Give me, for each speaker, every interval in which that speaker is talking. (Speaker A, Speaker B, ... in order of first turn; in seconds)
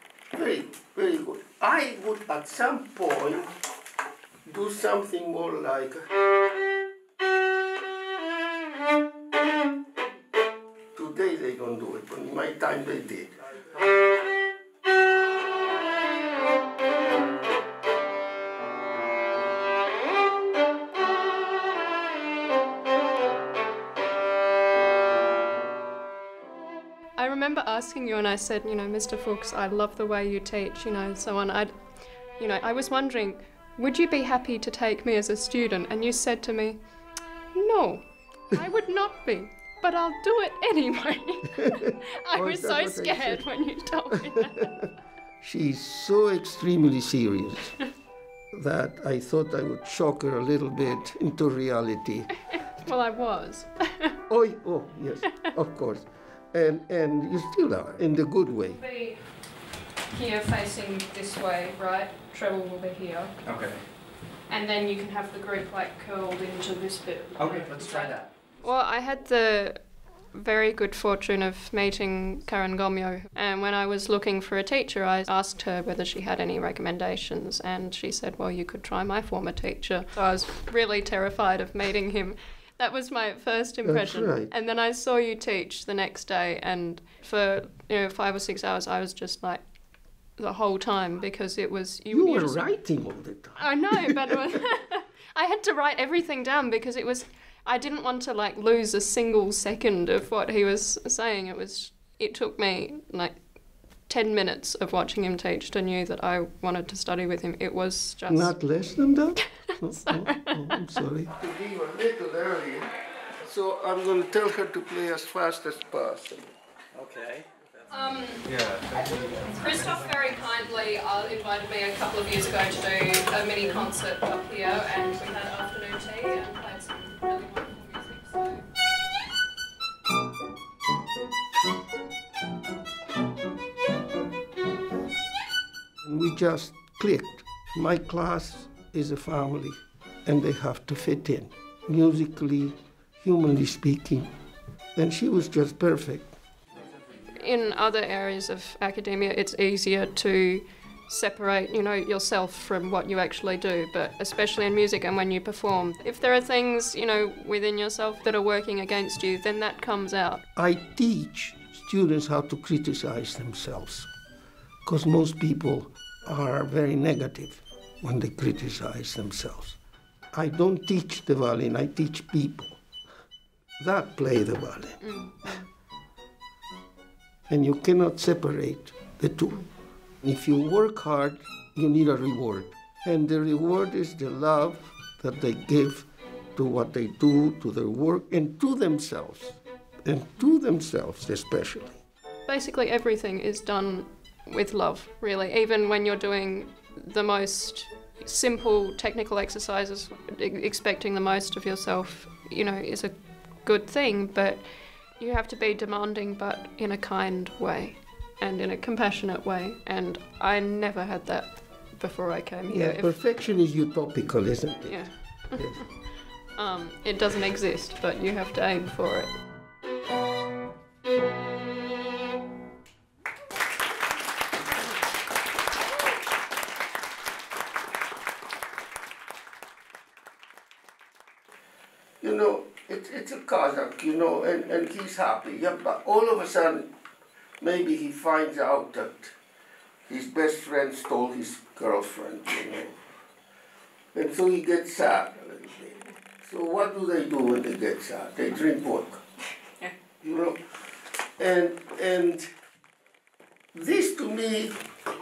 Speaker A: 0.3-3.5, 4.5-6.1, 10.9-13.4, 42.3-43.5, 45.4-47.9, 48.5-52.3, 54.3-58.8, 83.8-84.5, 92.1-94.2, 108.3-112.9, 113.4-116.5, 136.0-144.3, 144.9-146.3, 160.6-164.1, 164.8-169.8, 170.3-172.8, 173.8-175.1, 177.5-179.7, 180.2-192.0, 212.7-215.8, 232.2-236.9, 237.6-239.3, 240.1-243.0, 244.1-249.2, 250.2-250.6, 251.4-252.4, 253.7-254.8
Speaker B: 27.2-44.7, 52.7-54.2, 58.6-59.5, 60.1-63.4, 64.5-92.7, 93.6-108.6, 109.7-110.8, 117.9-128.7, 147.2-160.4, 175.0-175.7, 192.5-213.2, 214.8-219.4
Speaker C: 63.5-63.8, 67.4-68.2, 117.0-117.6, 118.5-119.4